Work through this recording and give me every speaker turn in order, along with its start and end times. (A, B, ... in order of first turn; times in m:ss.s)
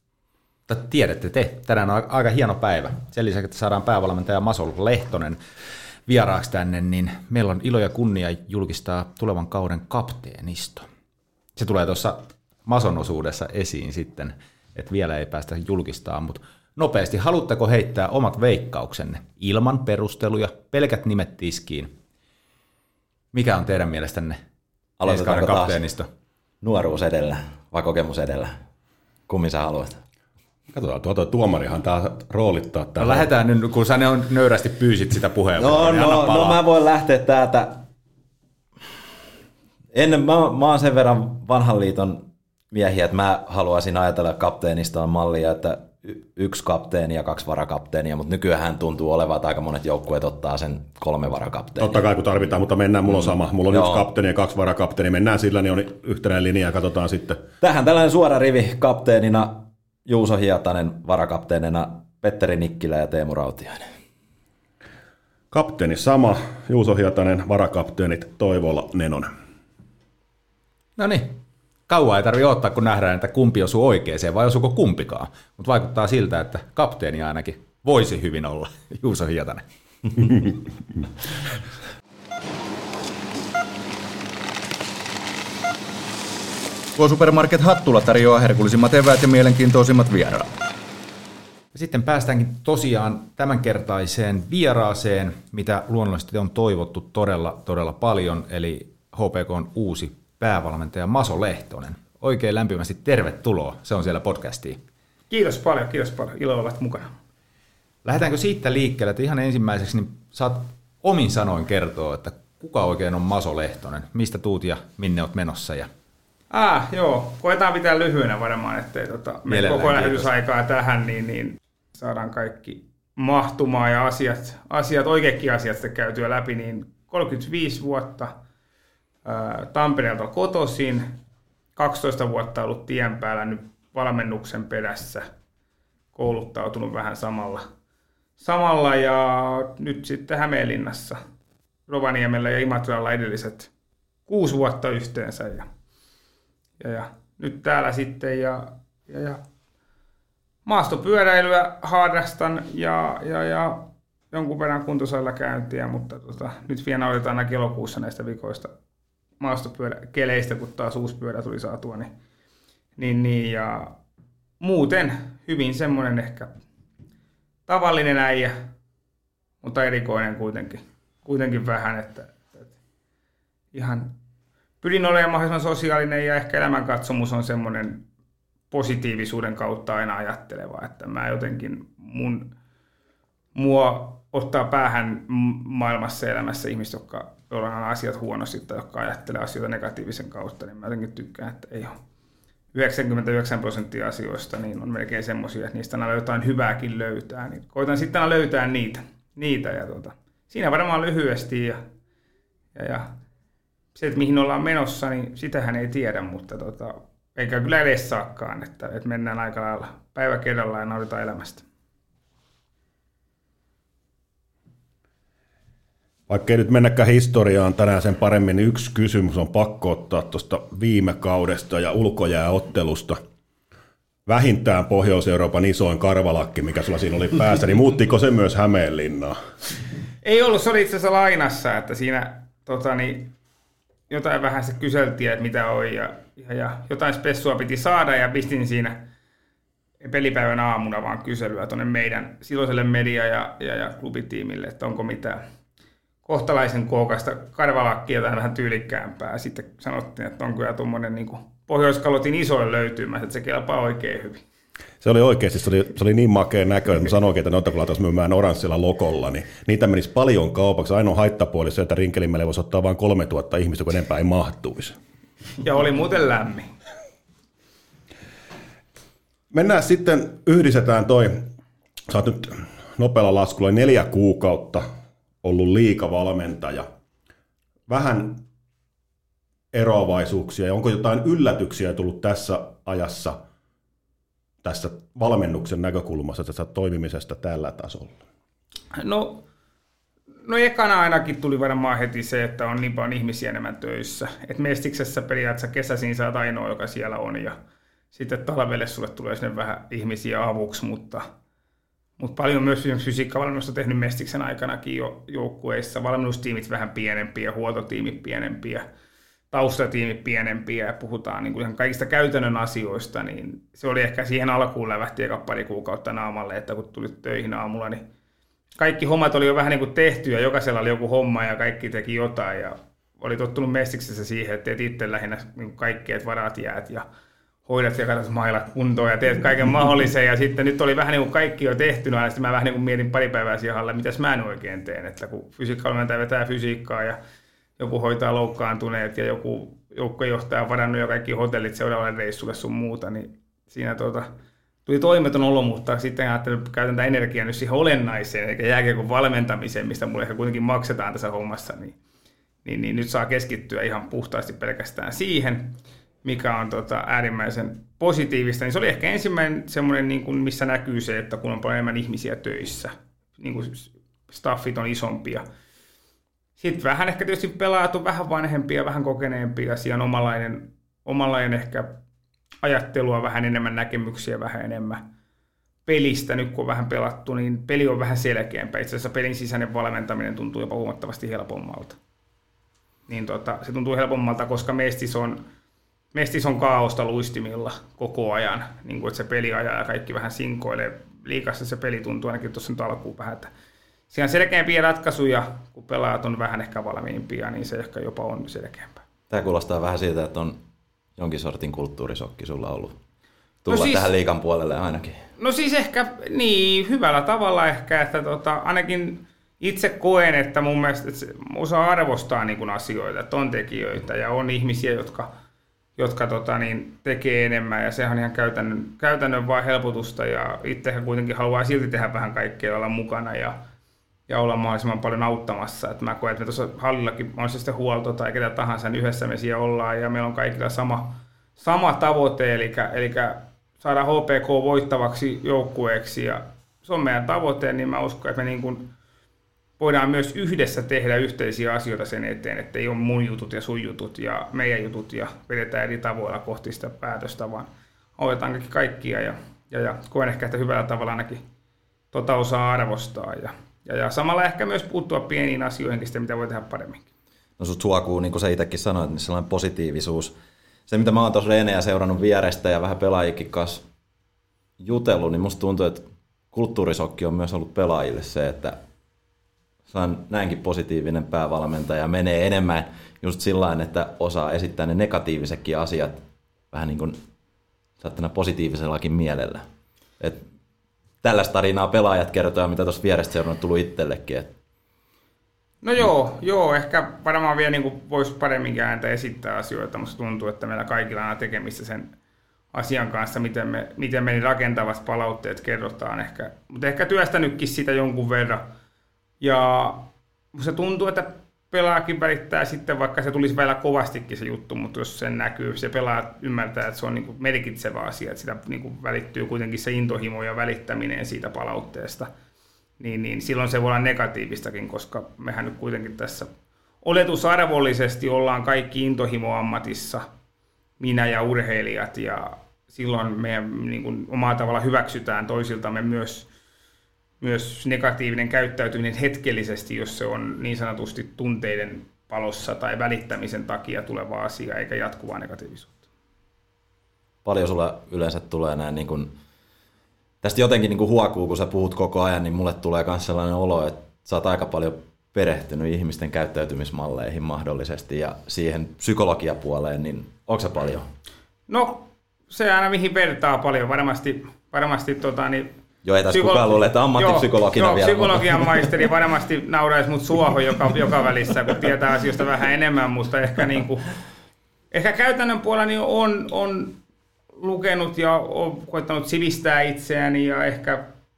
0:00.7-0:05.4 A
0:06.1-0:10.9 A
0:11.6-0:21.9 A
0:23.3-0:24.4 A
0:25.0-0:25.8 B
0:25.1-0:26.1 A
0:26.6-0:28.6 B
0:29.3-0:30.0 B
0:30.7-0:33.3 C
0:33.0-0:36.6 A
0:35.6-0:37.9 B
0:39.9-0:52.0 B
0:51.8-0:57.4 C
0:53.1-0:54.1 B
0:57.6-1:03.9 B
1:05.5-1:09.3 C
1:11.0-1:20.6 A
1:27.0-1:30.5 D
1:31.7-1:44.8 A
1:45.3-1:47.1 E
1:48.0-1:55.9 A
1:56.5-2:08.3 E
1:59.5-2:00.3 A
2:09.3-2:11.1 E
2:11.8-2:15.3 E
2:16.2-2:17.6 E
2:18.4-2:21.2 E
2:21.9-2:23.7 E
2:24.3-2:25.7 E
2:26.8-2:29.4 E
2:30.7-2:38.7 E
2:39.4-2:42.1 E
2:43.0-2:44.0 E
2:44.6-2:46.5 E
2:47.7-2:48.6 E
2:49.6-2:52.7 E
2:53.7-2:54.1 E
2:54.8-2:58.0 E
2:58.7-3:02.5 E
3:03.6-3:12.0 E
3:12.7-3:21.8 E
3:22.8-3:23.1 E
3:24.0-3:31.6 E
3:36.3-3:43.2 C
3:44.3-3:49.4 C
3:50.2-3:53.3 E
3:54.1-3:59.0 E
4:00.0-4:05.4 E
4:06.2-4:14.4 E
4:15.0-4:25.0 C
4:25.6-4:26.7 E
4:29.5-4:31.5 C
4:32.1-4:34.8 C
4:35.4-4:36.9 C
4:37.9-4:38.4 C
4:39.7-4:43.4 C
4:44.6-4:48.2 C
4:48.9-4:49.4 E
4:50.5-4:57.6 E
4:58.1-5:01.2 E
5:02.2-5:08.8 E
5:09.5-5:18.0 E
5:18.8-5:27.0 E
5:27.7-5:37.2 E
5:37.8-5:44.3 E
5:44.9-5:52.0 E
5:52.6-6:05.4 E
6:06.6-6:12.0 E
6:12.6-6:15.0 E
6:15.9-6:22.0 E
6:23.1-6:25.4 E
6:26.1-6:33.5 E
6:34.1-6:39.0 E
6:39.3-6:40.6 B
6:41.2-6:43.0 B
6:43.6-6:45.3 B
6:43.7-6:44.1 E
6:45.4-6:55.3 E
6:56.0-7:03.6 E
7:04.3-7:18.9 E
7:19.8-7:31.4 E
7:32.1-7:37.1 E
7:37.6-7:40.4 B
7:40.9-7:43.8 B
7:44.8-7:48.8 B
7:49.9-7:57.2 B
7:58.0-7:59.7 B
8:01.2-8:04.5 B
8:05.8-8:12.1 E
8:12.7-8:18.7 E
8:19.4-8:32.3 E
8:33.0-8:36.5 E
8:37.0-8:40.2 E
8:41.0-8:46.5 E
8:47.4-8:56.0 E
8:57.4-8:59.4 B
9:00.4-9:11.1 B
9:11.7-9:15.7 E
9:16.0-9:18.9 B
9:16.3-9:24.1 E
9:24.9-9:27.0 E
9:27.6-9:31.1 E